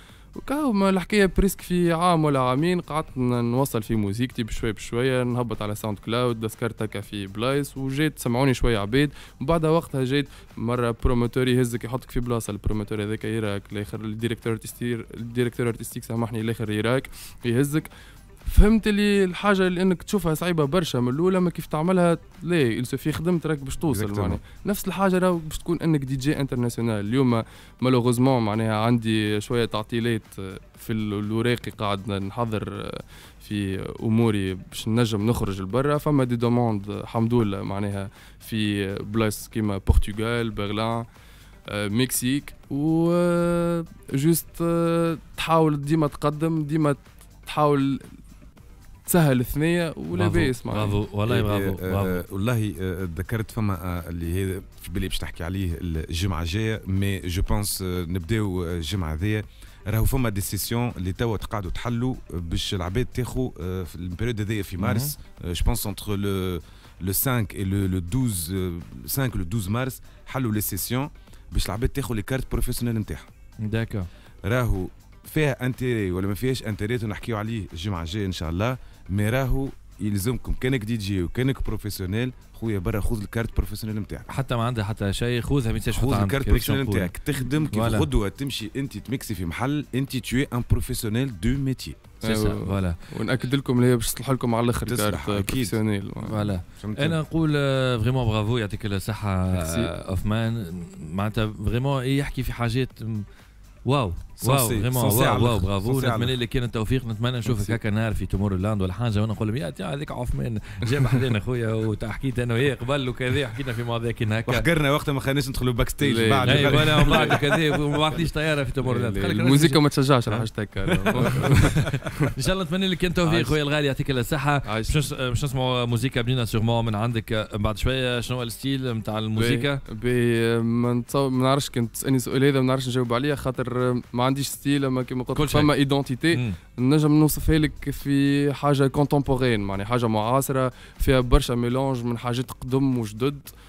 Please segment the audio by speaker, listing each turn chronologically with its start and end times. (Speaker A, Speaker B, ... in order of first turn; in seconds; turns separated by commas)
Speaker A: 0.3-17.9, Speaker A: 18.5-41.0, Speaker B: 23.9-24.4, Speaker A: 41.7-48.1, Speaker A: 49.1-51.0, Speaker C: 50.1-52.2, Speaker B: 51.3-73.3, Speaker C: 64.8-65.1, Speaker C: 73.6-74.1, Speaker B: 74.5-84.3, Speaker C: 84.3-87.1, Speaker B: 85.9-92.0, Speaker C: 87.7-88.1, Speaker A: 92.2-96.5, Speaker C: 92.2-93.0, Speaker B: 94.9-95.8, Speaker C: 96.2-103.2, Speaker B: 96.8-97.2, Speaker A: 99.5-99.9, Speaker C: 103.9-114.7, Speaker B: 104.4-106.4, Speaker A: 107.5-107.8, Speaker B: 114.5-117.4, Speaker A: 116.0-117.4, Speaker C: 116.4-129.8, Speaker A: 118.8-122.3, Speaker A: 123.2-123.6, Speaker A: 124.7-125.0, Speaker A: 129.4-143.5, Speaker C: 135.3-135.7, Speaker C: 136.3-136.6